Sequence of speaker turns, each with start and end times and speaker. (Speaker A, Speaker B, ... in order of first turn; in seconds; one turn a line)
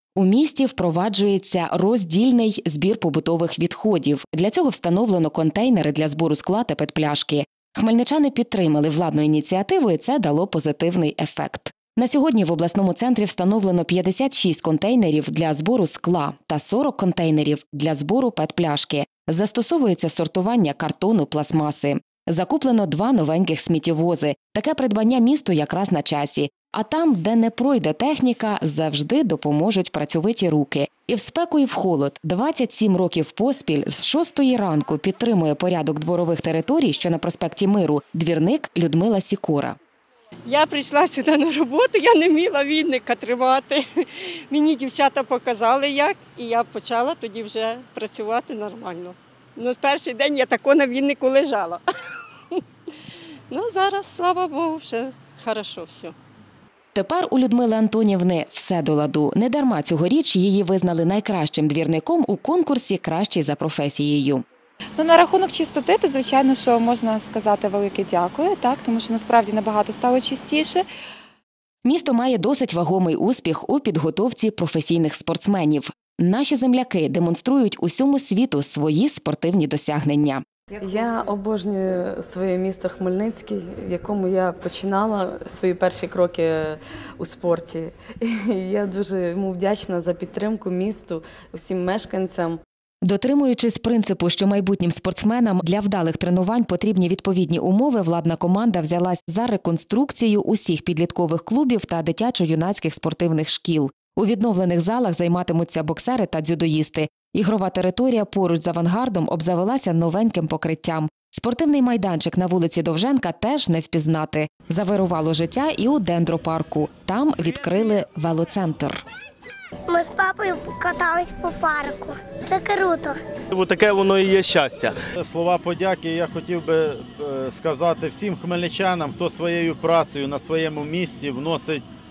Speaker A: 0.2-39.7
Speaker B: 40.5-43.9
Speaker B: 44.5-51.8
Speaker B: 53.5-56.1
Speaker A: 56.9-64.4
Speaker C: 65.0-70.8
Speaker D: 65.0-65.6
Speaker D: 67.0-67.3
Speaker D: 70.2-70.7
Speaker A: 71.8-80.4
Speaker E: 80.8-92.6
Speaker A: 93.0-119.0
Speaker F: 119.9-123.2
Speaker D: 123.5-124.9
Speaker G: 125.2-131.8